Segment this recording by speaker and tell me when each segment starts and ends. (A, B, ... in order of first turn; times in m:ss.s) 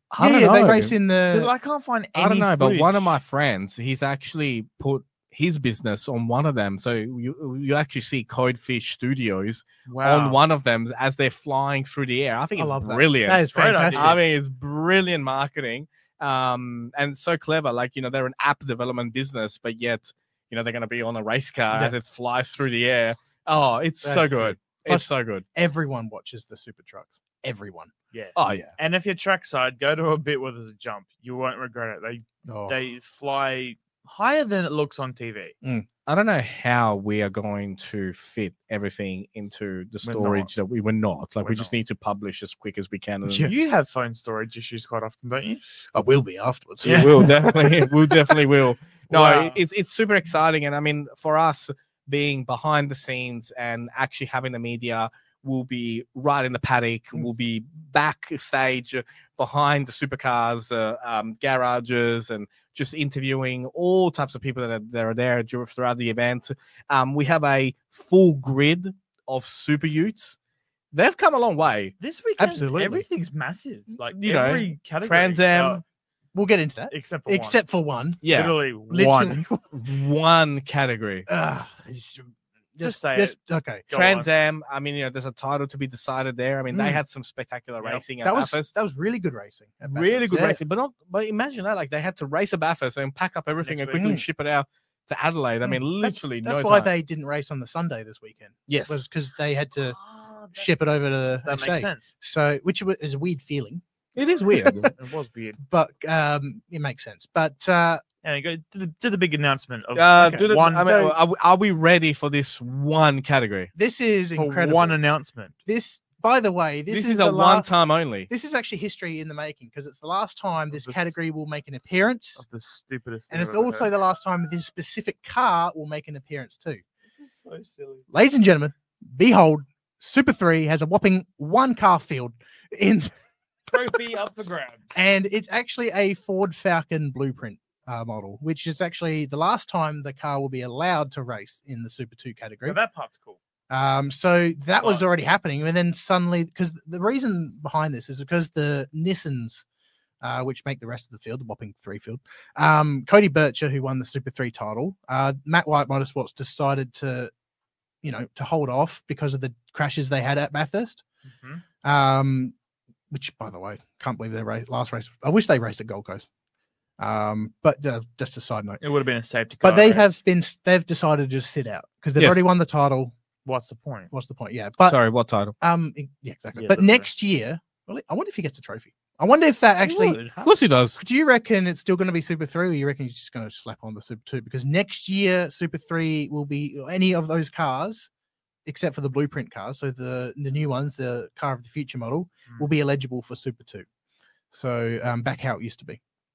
0:00.1-0:01.0 A
0:00.2-0:01.5 B
0:01.3-0:03.2 C
0:02.1-0:25.4 A
0:09.8-0:10.5 C
0:12.6-0:14.1 B
0:13.5-0:14.2 C
0:21.7-0:22.0 B
0:24.0-0:27.9 B
0:28.1-0:35.5 C
0:28.4-0:28.7 A
0:32.4-0:32.8 B
0:36.1-0:43.5 A
0:40.0-0:40.5 C
0:41.4-0:41.7 C
0:43.3-0:45.6 C
0:45.9-0:48.3 B
0:46.8-1:10.4 A
0:46.8-0:47.2 C
0:49.1-0:49.6 C
1:10.9-1:11.9 A
1:12.0-1:15.8 C
1:12.4-1:13.0 B
1:14.1-1:15.8 A
1:16.3-1:18.3 B
1:16.9-1:17.6 C
1:18.2-1:18.5 A
1:18.2-1:19.5 C
1:18.9-1:19.6 B
1:19.7-1:21.3 A
1:21.3-1:23.9 B
1:22.8-1:24.3 C
1:23.9-1:28.7 A
1:26.7-1:27.0 B
1:27.8-1:28.0 C
1:28.2-1:30.6 B
1:29.8-1:36.9 A
1:33.6-1:34.2 C
1:34.0-1:34.2 B
1:35.6-1:40.0 B
1:38.7-1:39.0 A
1:39.8-1:40.7 C
1:40.5-1:43.8 B
1:41.4-1:42.1 C
1:44.1-1:44.9 A
1:44.4-1:44.9 B
1:44.9-1:45.6 C
1:45.6-1:48.0 B
1:48.2-1:51.2 C
1:49.9-1:53.7 A
1:50.2-1:51.0 B
1:53.7-1:55.0 B
1:54.3-1:55.5 C
1:55.6-1:57.7 B
1:56.9-1:58.3 A
1:58.3-2:02.4 B
2:00.7-2:01.2 C
2:02.4-2:03.9 C
2:03.3-2:06.8 B
2:07.1-2:08.0 C
2:08.1-2:13.1 B
2:13.7-2:15.0 C
2:14.9-2:22.8 B
2:22.6-2:23.4 C
2:23.7-2:29.6 B
2:24.8-2:25.0 C
2:30.2-2:37.3 B
2:38.0-2:41.0 B
2:41.2-2:41.6 C
2:41.8-2:42.5 B
2:43.1-2:46.2 B
2:47.0-2:48.8 B
2:48.8-2:50.2 C
2:49.6-2:53.1 B
2:53.4-2:54.1 C
2:54.1-2:55.0 B
2:54.8-2:55.5 A
2:55.6-3:00.2 B
2:56.5-2:57.1 C
2:59.8-3:00.5 C
3:00.4-3:01.0 A
3:00.9-3:08.1 B
3:08.6-3:13.8 B
3:12.5-3:12.7 C
3:14.5-3:16.0 B